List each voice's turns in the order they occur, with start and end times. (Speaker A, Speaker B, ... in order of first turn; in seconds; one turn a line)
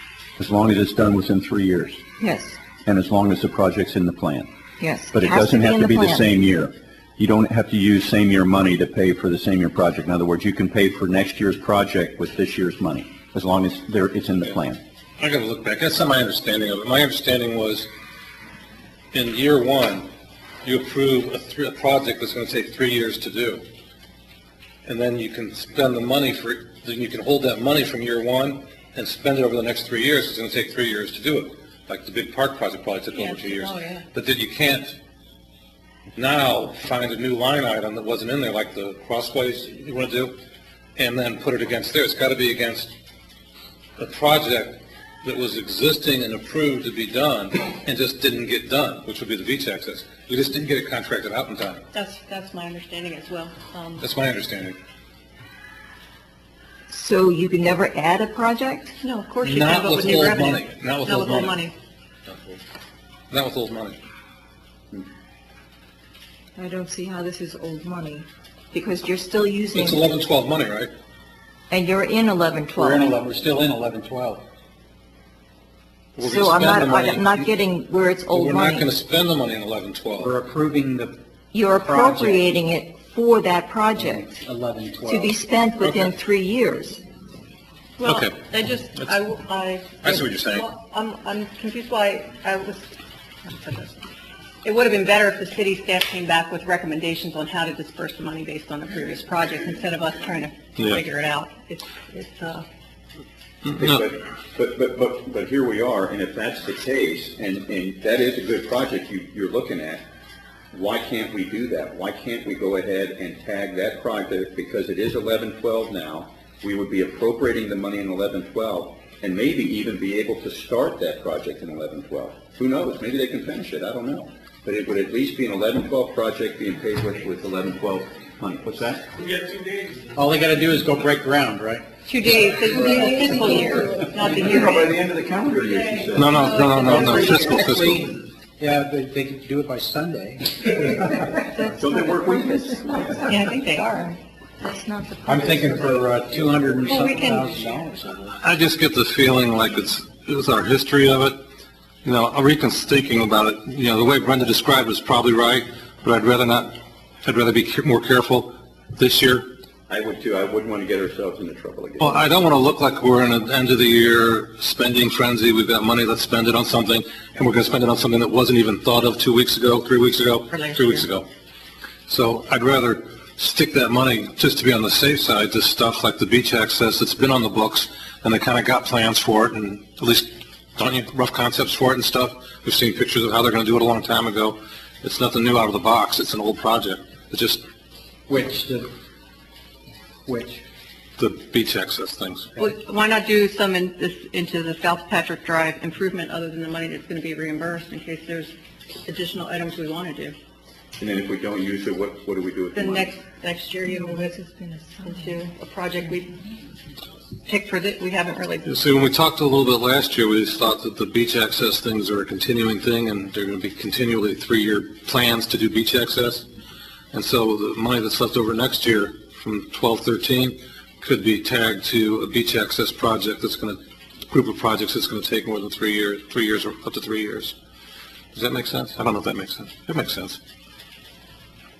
Speaker A: 0.4-2.0
Speaker B: 2.2-2.6
Speaker A: 2.9-4.5
Speaker B: 4.8-6.3
Speaker A: 5.1-14.8
Speaker C: 15.2-17.9
Speaker C: 19.1-20.1
Speaker C: 20.6-23.6
Speaker C: 24.8-35.0
Speaker D: 33.1-34.0
Speaker C: 36.1-40.4
Speaker C: 41.0-42.9
Speaker C: 44.0-51.8
Speaker D: 51.9-54.0
Speaker C: 54.0-54.8
Speaker B: 56.9-58.9
Speaker D: 59.0-61.7
Speaker C: 59.4-61.6
Speaker C: 62.3-62.6
Speaker C: 63.3-64.0
Speaker B: 66.6-70.0
Speaker C: 69.7-70.9
Speaker B: 71.7-73.1
Speaker E: 72.7-74.4
Speaker C: 76.2-77.5
Speaker B: 76.2-78.9
Speaker C: 78.3-80.3
Speaker E: 80.2-82.5
Speaker B: 81.5-84.3
Speaker E: 83.9-86.1
Speaker B: 85.0-87.0
Speaker D: 88.0-92.9
Speaker C: 88.0-89.2
Speaker C: 90.0-90.7
Speaker D: 93.4-94.0
Speaker D: 94.6-102.6
Speaker C: 100.8-101.0
Speaker C: 103.6-104.0
Speaker A: 103.8-110.0
Speaker A: 110.7-129.1
Speaker C: 129.2-130.0
Speaker E: 130.1-134.0
Speaker D: 132.1-134.9
Speaker B: 133.3-133.8
Speaker A: 134.2-136.4
Speaker C: 136.1-138.1
Speaker B: 136.3-137.2
Speaker E: 136.4-141.4
Speaker B: 141.4-144.0
Speaker A: 141.7-143.2
Speaker D: 143.2-144.2
Speaker B: 144.6-146.0
Speaker E: 145.2-148.4
Speaker D: 146.9-147.4
Speaker C: 148.4-151.4
Speaker C: 152.0-159.5
Speaker A: 159.9-162.2
Speaker C: 162.0-171.3
Speaker D: 170.5-171.1
Speaker C: 172.1-187.6
Speaker E: 188.3-188.9
Speaker E: 190.2-190.6
Speaker C: 191.2-192.5
Speaker D: 192.6-200.3
Speaker A: 201.0-203.1
Speaker D: 202.7-204.4
Speaker B: 203.9-205.5
Speaker D: 205.0-206.3
Speaker D: 207.4-208.6
Speaker C: 208.6-216.4
Speaker C: 217.1-227.5
Speaker C: 228.3-230.4